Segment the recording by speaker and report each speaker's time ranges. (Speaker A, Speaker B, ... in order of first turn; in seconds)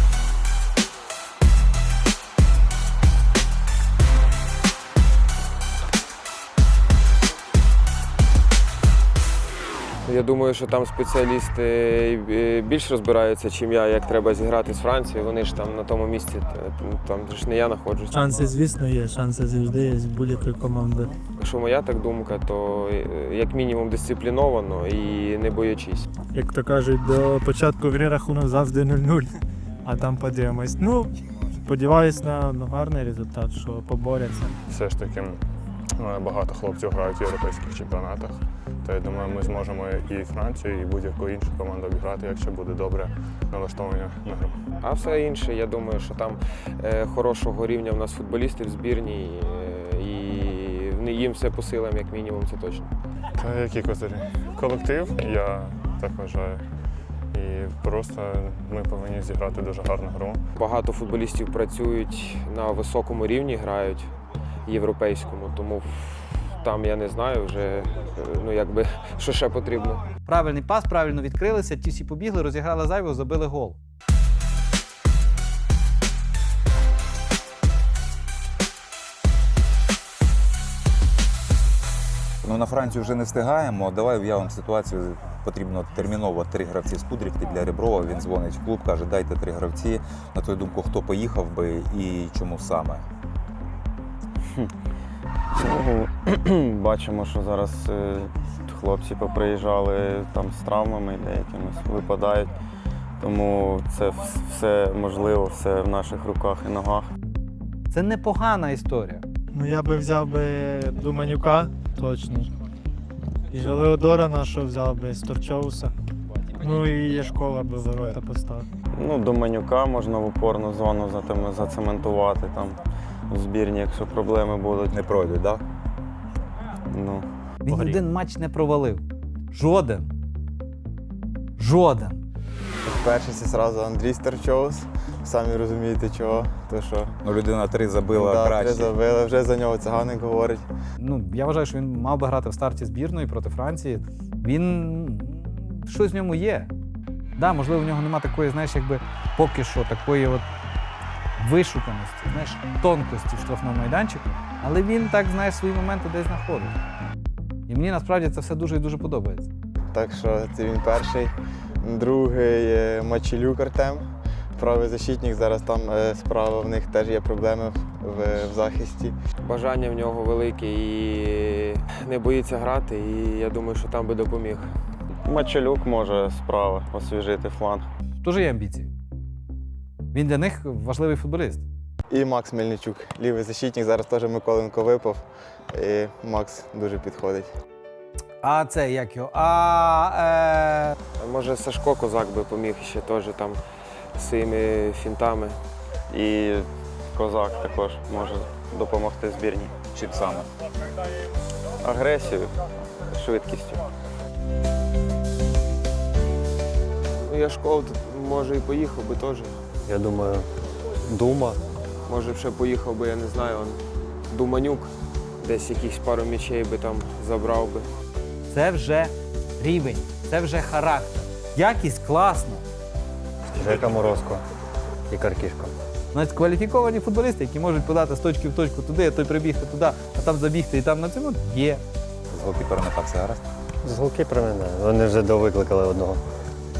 Speaker A: 10.1-18.5, 21.4-26.1, 44.8-52.9, 60.5-64.1, 64.7-70.0, 169.4-174.7, 191.2-193.6, 194.2-195.6, 207.2-209.6, 212.1-217.9
Speaker B: 18.1-21.1, 26.3-34.6, 109.5-112.5, 113.5-115.9, 116.6-118.7
Speaker C: 34.7-35.4, 36.0-44.5, 53.4-56.6, 57.3-60.4
Speaker D: 70.2-73.8, 107.9-109.2, 127.7-130.1, 131.6-132.2, 141.0-146.7, 147.4-150.4, 151.4-156.8, 157.7-159.5, 178.2-178.9, 180.1-181.6, 188.4-190.9, 218.5-222.6, 226.1-231.8
Speaker E: 82.4-93.0, 124.9-125.6, 137.2-138.9, 199.9-200.5, 232.3-233.4
Speaker F: 95.6-102.5, 103.2-107.1, 118.9-124.9, 126.9-127.2, 175.2-177.9, 196.1-199.7, 201.8-202.5, 203.1-203.8
Speaker G: 127.7-128.0, 209.8-210.5, 211.0-211.6, 223.5-224.4, 225.1-225.7, 233.8-236.2
Speaker H: 132.8-137.1, 138.1-140.7, 159.9-169.1, 182.1-187.5